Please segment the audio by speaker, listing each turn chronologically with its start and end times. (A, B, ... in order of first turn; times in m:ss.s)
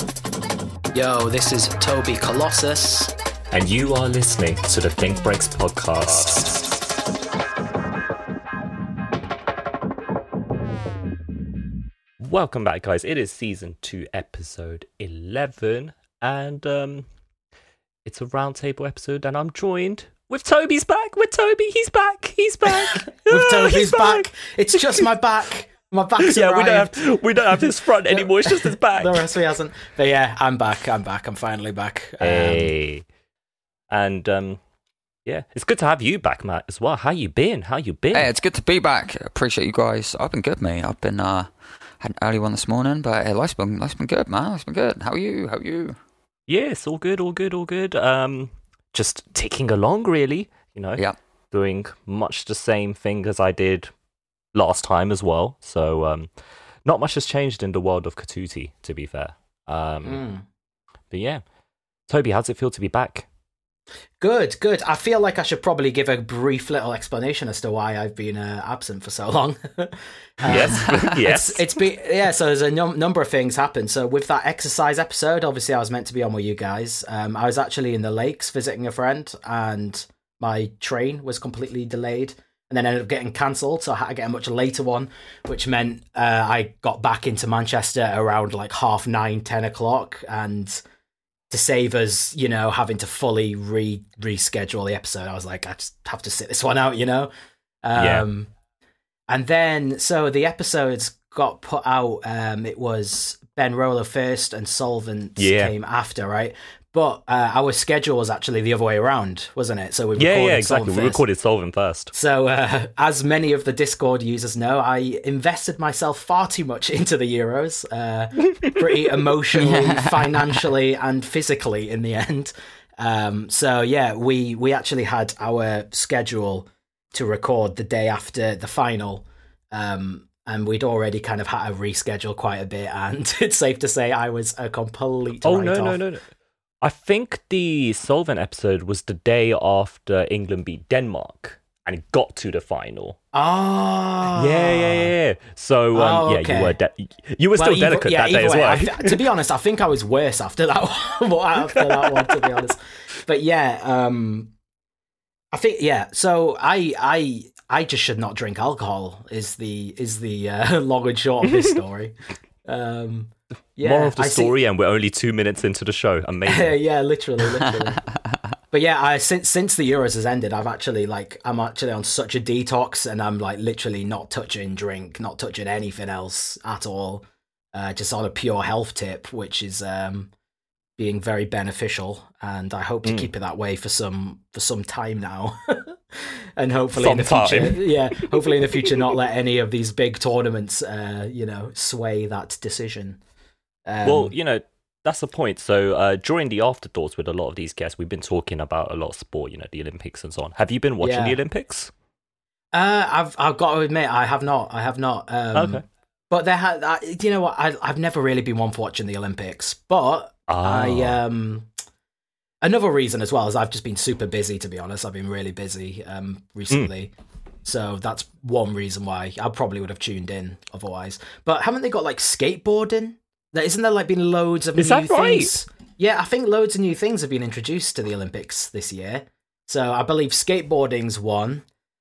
0:00.9-0:03.1 A
0:03.5-0:06.6 B
0:12.2-0:17.1 B
0:18.0-0:25.0 B
0:22.7-0:27.0 A
0:26.2-0:29.3 B
0:27.6-0:32.7 A
0:32.2-0:33.0 B
0:33.9-0:34.6 B
0:35.2-0:38.3 B
0:38.1-0:46.0 C
0:46.5-0:53.9 B
0:54.5-0:56.3 B
0:56.8-1:00.2 B
1:00.0-1:00.4 A
1:01.1-1:01.4 B
1:02.1-1:03.2 B
1:04.2-1:30.8 A
1:10.4-1:11.8 B
1:31.5-1:37.3 A
1:37.8-1:38.5 A
1:38.0-1:38.2 B
1:39.3-1:51.2 A
1:45.4-1:45.7 B
1:50.2-1:52.1 B
1:52.1-2:16.0 A
1:59.6-2:00.1 C
2:15.4-2:16.3 B
2:16.8-2:23.2 B
2:23.3-2:25.1 A
2:24.4-2:29.2 B
2:25.9-2:26.7 A
2:27.6-2:34.5 A
2:31.7-2:32.5 B
2:35.5-2:42.1 A
2:42.6-2:44.5 A
2:43.8-2:46.8 B
2:46.4-2:48.0 A
2:48.7-3:00.3 A
3:01.0-3:13.2 A
3:03.0-3:03.3 B
3:07.0-3:08.9 B
3:13.9-3:14.3 A
3:14.0-3:21.9 B
3:21.0-3:21.4 A
3:22.7-3:31.7 A
3:25.5-3:25.8 B
3:30.5-3:31.2 B
3:32.6-3:37.1 A
3:37.6-3:51.6 A
3:44.8-3:45.5 B